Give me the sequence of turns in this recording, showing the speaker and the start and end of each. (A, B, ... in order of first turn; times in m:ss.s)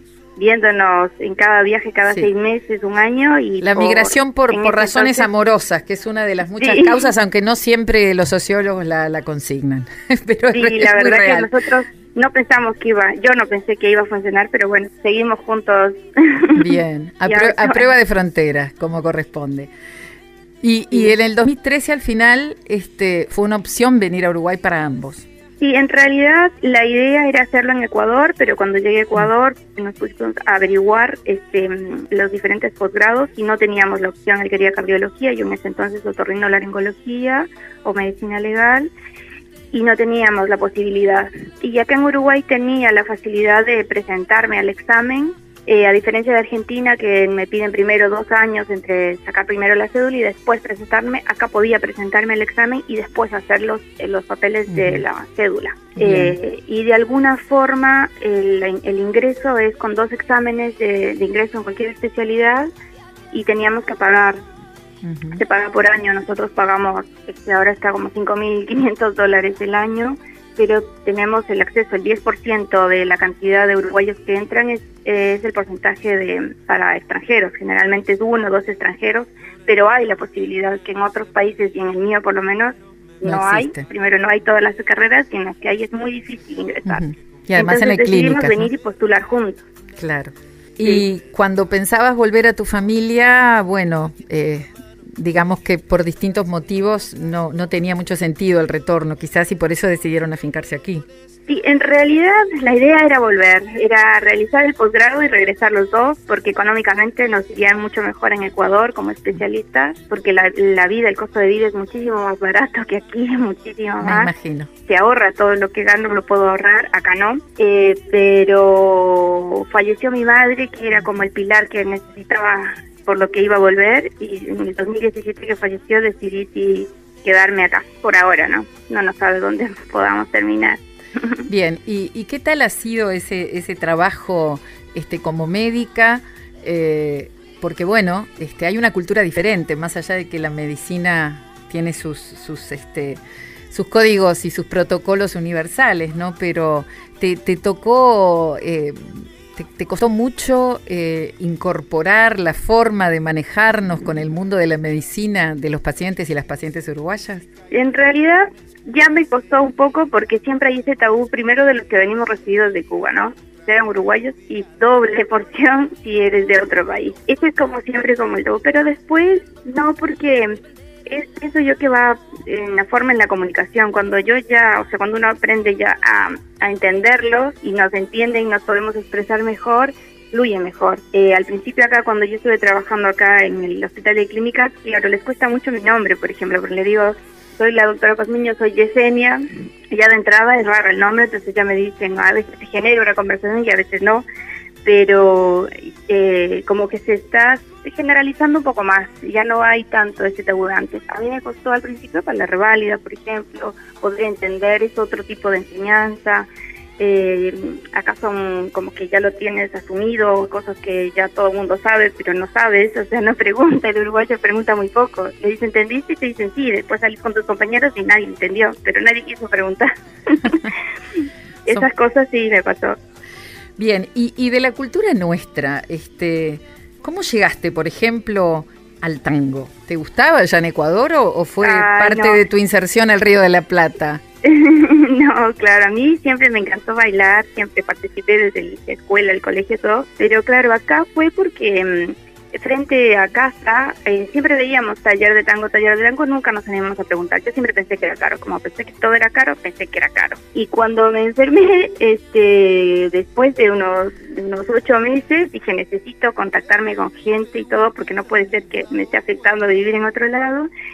0:00.4-0:05.3 A
0:03.6-0:11.5 B
0:06.6-0:07.1 A
0:10.5-0:16.8 A
0:16.5-0:19.7 B
0:17.3-0:17.8 A
0:20.6-0:25.2 B
0:25.6-0:38.9 A
0:39.7-1:02.7 A
0:54.7-0:55.0 B
0:56.0-0:56.4 B
1:03.3-1:04.4 A
1:05.0-1:05.4 B
1:05.4-1:29.6 A
1:23.2-1:23.8 B
1:26.8-1:28.7 B
1:30.0-1:41.0 B
1:41.5-1:54.3 A
1:54.0-1:54.7 B
1:54.8-2:11.4 A
2:11.5-2:37.4 B
2:37.7-3:14.2 A
3:14.8-3:26.5 A
3:27.0-3:40.7 A
3:40.4-3:40.7 B
3:41.6-3:43.0 A
3:43.8-3:54.2 B
3:51.6-3:52.4 A
3:54.4-4:20.7 A